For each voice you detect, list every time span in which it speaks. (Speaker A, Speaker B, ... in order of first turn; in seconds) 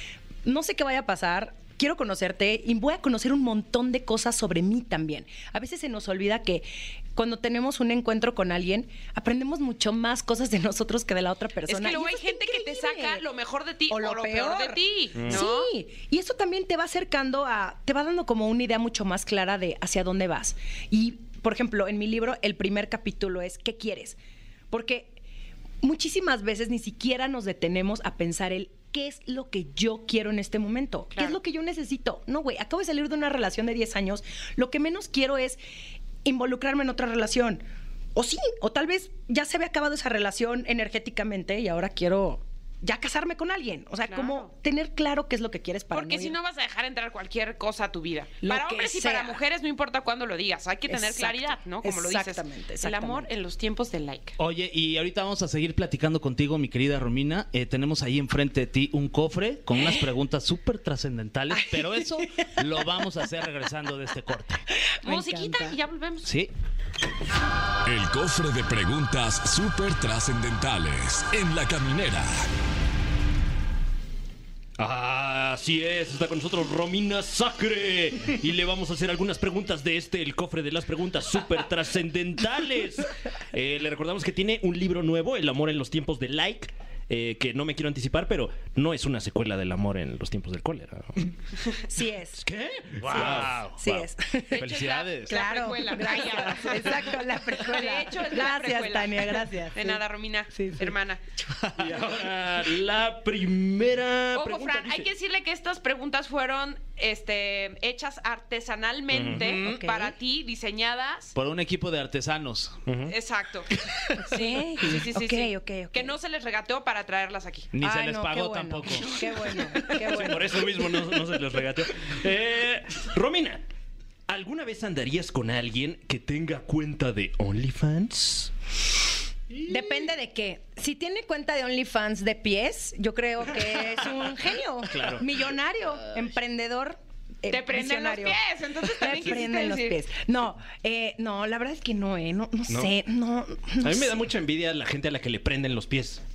Speaker A: 0.4-13.2, 13.9-24.1, 24.7-25.1, 25.8-35.6, 36.2-37.6, 38.1-46.4, 48.4-49.4, 50.9-53.3, 61.6-62.2, 65.0-65.8, 91.9-92.4, 93.8-94.6, 95.2-100.0, 100.5-100.9, 109.6-110.1, 114.2-116.1, 117.8-120.8, 129.6-144.1
Speaker B: 11.7-15.7, 44.1-44.5, 45.9-54.4, 65.0-66.3, 94.5-101.2, 104.3-111.3, 113.1-117.7, 119.6-120.0, 137.5-140.0
Speaker C: 15.2-15.4, 74.8-91.3, 92.4-93.7, 101.7-105.1, 109.1-109.7, 112.9-113.1, 119.9-123.6, 124.3-128.5, 134.9-135.3, 143.8-146.2
Speaker D: 54.4-64.6, 66.2-66.5, 93.0-95.4, 111.3-112.8, 117.7-119.2
Speaker E: 67.8-72.5